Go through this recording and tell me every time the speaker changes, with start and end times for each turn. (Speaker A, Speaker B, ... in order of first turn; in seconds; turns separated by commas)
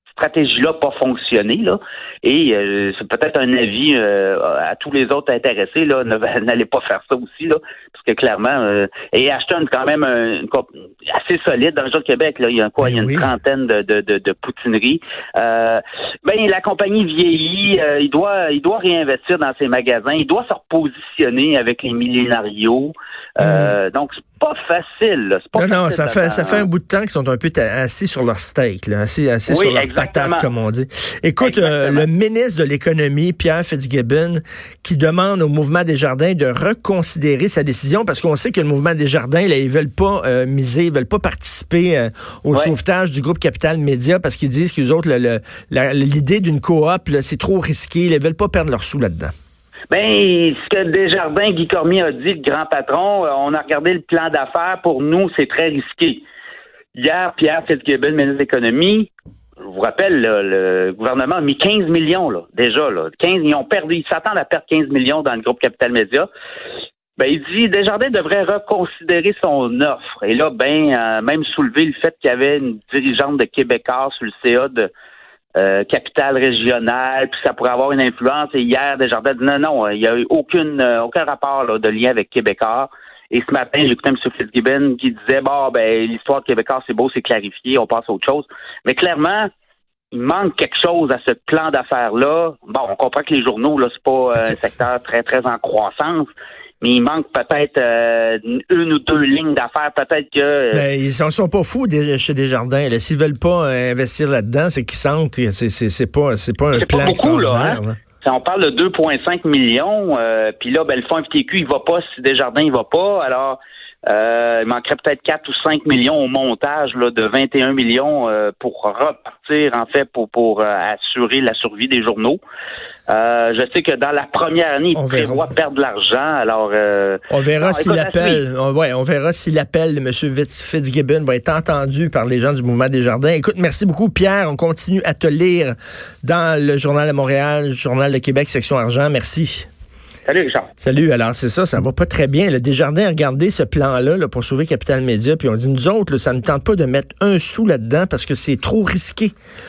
Speaker A: 0.1-26.7, Speaker B: 12.8-13.3, Speaker B: 23.4-23.8, Speaker B: 25.5-49.3, Speaker A: 29.5-30.5, Speaker A: 31.4-32.0, Speaker A: 49.9-56.2, Speaker A: 56.9-59.1, Speaker A: 59.6-66.3, Speaker A: 67.2-74.9, Speaker A: 75.6-89.5, Speaker A: 90.1-100.8, Speaker B: 100.7-108.0, Speaker A: 106.7-113.6, Speaker A: 114.1-122.4, Speaker A: 123.1-128.4, Speaker B: 124.9-125.4, Speaker B: 127.3-139.7, Speaker A: 140.2-140.7, Speaker B: 140.8-149.3